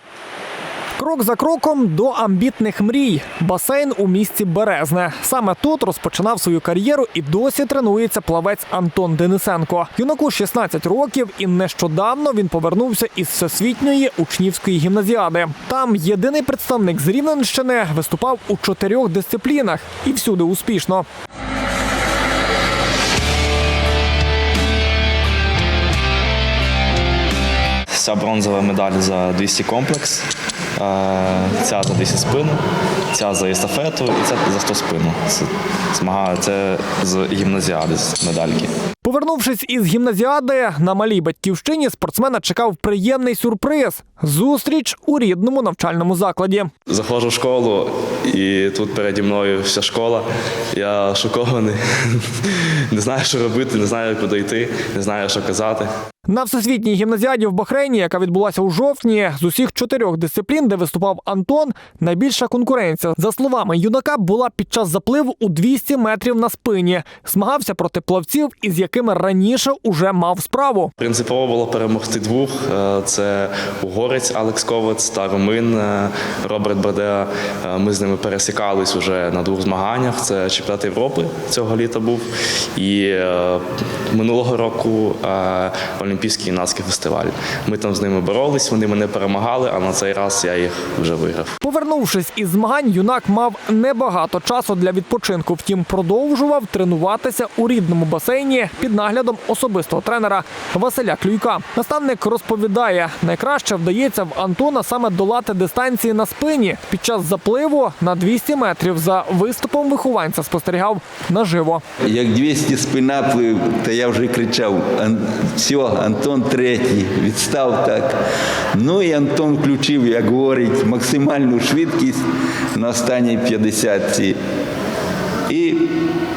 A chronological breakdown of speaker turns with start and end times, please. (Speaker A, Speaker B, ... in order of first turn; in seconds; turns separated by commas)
Speaker A: 1.0-21.1, Speaker B: 27.9-30.2, Speaker B: 30.8-32.6, Speaker B: 33.1-38.7, Speaker A: 39.0-46.7, Speaker B: 46.9-55.9, Speaker A: 56.3-70.9, Speaker B: 71.0-82.2, Speaker B: 82.8-91.5, Speaker A: 91.6-111.8, Speaker C: 112.0-118.2, Speaker C: 118.8-122.2, Speaker C: 122.8-124.4, Speaker C: 125.5-126.0